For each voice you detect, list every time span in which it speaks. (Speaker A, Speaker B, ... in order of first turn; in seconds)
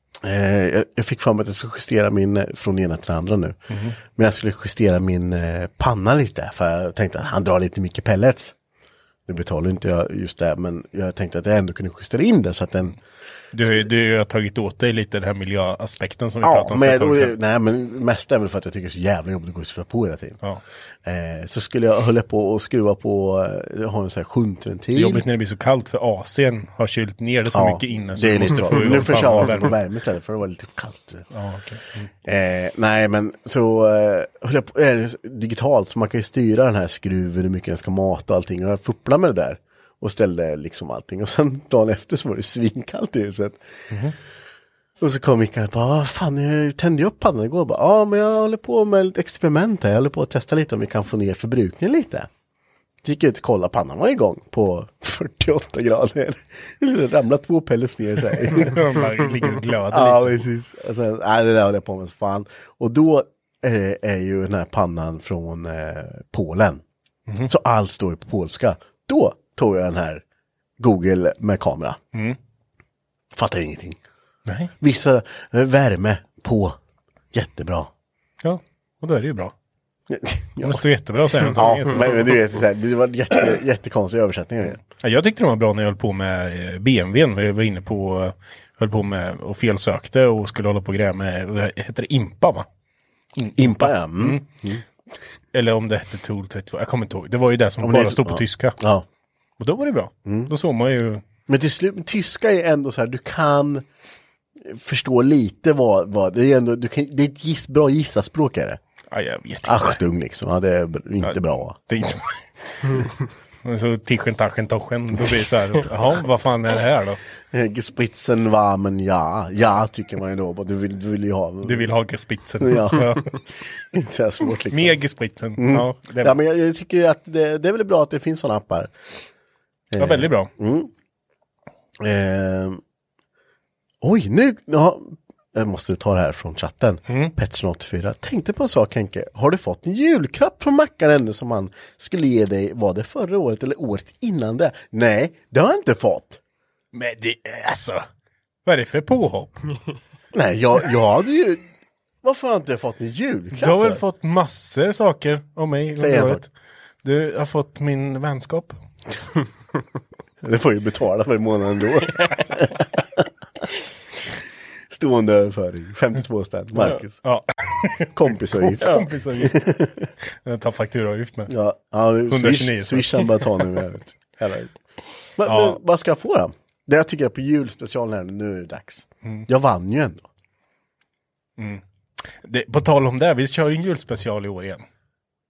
Speaker A: 0.2-8.6, 9.3-13.0, 16.4-20.4, 21.1-25.2, 27.5-31.3, 32.2-43.6, 45.0-52.3, 53.0-58.9, 59.9-66.8, 67.4-70.2, 70.8-72.0, 73.3-74.0, 74.8-76.8, 77.3-77.9, 80.1-84.8, 93.6-94.8, 97.8-99.1, 100.3-100.5, 101.5-103.8, 104.6-108.8, 109.7-111.8, 117.5-121.9, 122.6-123.4, 123.9-125.0, 125.6-128.9, 129.9-130.9, 132.0-132.8, 134.0-146.4, 150.3-151.7, 152.2-154.0, 156.0-156.4, 160.4-163.2, 164.9-167.2, 168.1-170.1, 171.5-174.7, 175.4-180.3
Speaker B: 13.5-17.4, 24.9-29.8, 31.3-32.1, 58.5-60.4, 74.5-74.7, 78.4-79.5, 80.6-82.4, 84.8-92.7, 93.4-94.4, 95.5-98.8, 99.6-101.2, 109.1-110.0, 111.2-113.1, 113.6-117.2, 121.6-123.4, 124.7-126.4, 130.0-130.5, 146.9-148.0, 148.7-149.7, 153.6-156.5, 157.0-158.8, 166.8-169.8, 170.4-171.5, 172.3-173.8, 175.4-175.8, 181.6-184.8